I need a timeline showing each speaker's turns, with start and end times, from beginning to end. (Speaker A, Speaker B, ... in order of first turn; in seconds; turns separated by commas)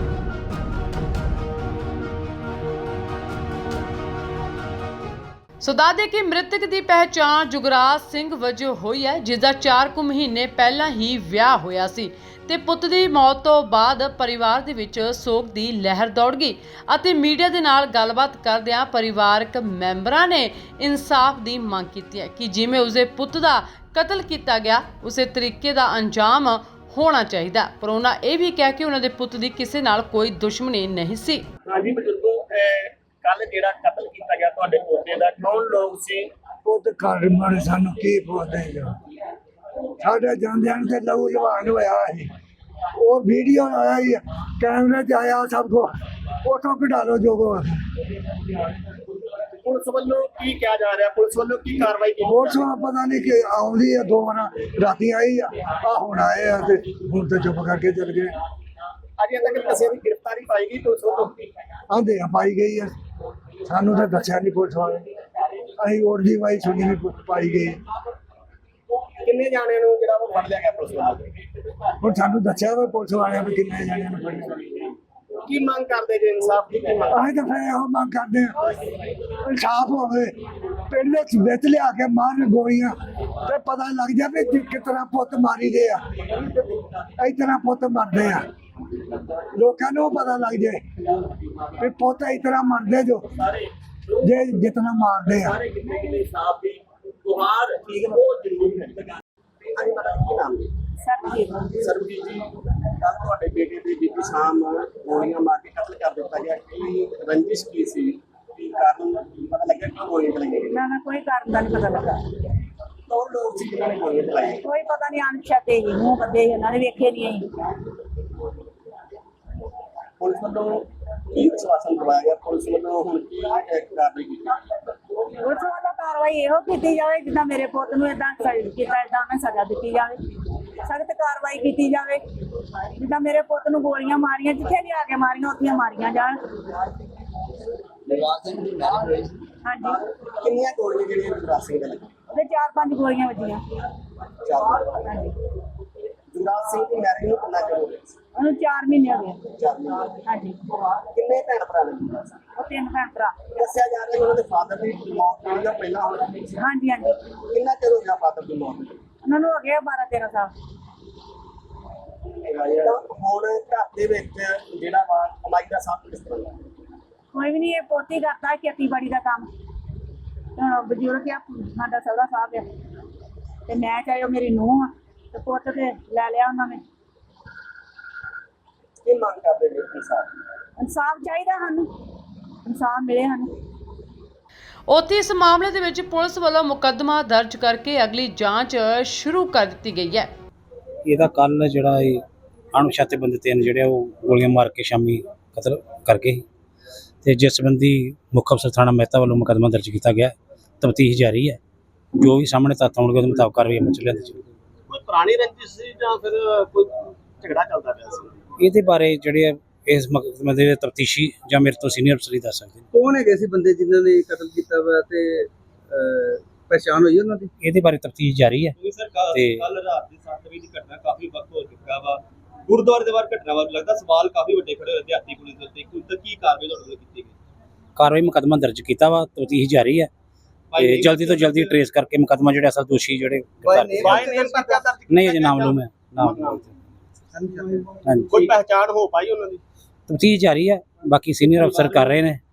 Speaker A: 5.6-31.4, Speaker B: 31.7-36.3, Speaker C: 36.6-38.9, Speaker C: 40.0-42.3, Speaker C: 43.0-45.9, Speaker C: 46.4-47.8, Speaker B: 49.6-52.6, Speaker C: 52.2-58.3, Speaker B: 59.2-61.4, Speaker C: 61.9-62.9, Speaker C: 63.6-65.1, Speaker C: 65.8-67.8, Speaker B: 69.2-71.2, Speaker C: 72.0-74.6, Speaker B: 75.4-77.2, Speaker C: 77.1-78.7, Speaker C: 79.4-80.3, Speaker C: 80.9-86.3, Speaker C: 87.2-88.5, Speaker C: 89.5-90.8, Speaker C: 91.8-93.3, Speaker C: 94.2-95.6, Speaker B: 95.6-99.1, Speaker B: 99.7-100.7, Speaker D: 101.0-101.7, Speaker B: 101.7-110.8, Speaker D: 110.7-112.2, Speaker B: 113.1-114.6, Speaker D: 114.6-117.5, Speaker B: 120.2-124.6, Speaker D: 125.4-130.2, Speaker D: 130.8-132.2, Speaker D: 133.0-136.4, Speaker E: 138.1-139.3, Speaker D: 139.6-140.0, Speaker B: 140.4-142.1, Speaker D: 142.3-143.6, Speaker B: 144.4-145.0, Speaker D: 145.0-145.3, Speaker B: 146.3-148.2, Speaker D: 148.4-149.4, Speaker B: 149.6-150.2, Speaker D: 150.2-150.6, Speaker B: 151.1-152.5, Speaker D: 152.6-153.5, Speaker B: 153.5-156.6, Speaker D: 156.6-157.2, Speaker B: 157.5-159.0, Speaker D: 159.2-160.5, Speaker B: 162.4-166.6, Speaker D: 167.3-169.5, Speaker D: 170.6-172.6, Speaker D: 173.7-176.8, Speaker B: 179.0-180.3, Speaker D: 180.8-181.9, Speaker D: 182.6-183.5, Speaker A: 184.9-190.3, Speaker F: 191.0-196.4, Speaker F: 197.2-201.6, Speaker F: 202.2-204.4, Speaker B: 204.9-206.3, Speaker G: 205.1-208.2, Speaker B: 207.6-208.3, Speaker F: 208.6-212.8, Speaker E: 212.9-217.5, Speaker F: 217.6-218.8, Speaker G: 218.8-227.3, Speaker F: 219.3-219.7, Speaker F: 227.9-230.1, Speaker B: 230.7-231.0, Speaker F: 230.7-234.2, Speaker G: 231.2-231.6, Speaker E: 233.7-234.7, Speaker B: 234.0-236.6, Speaker F: 235.1-236.7, Speaker E: 237.3-237.9, Speaker F: 238.1-238.4, Speaker B: 238.3-239.6, Speaker F: 240.1-242.4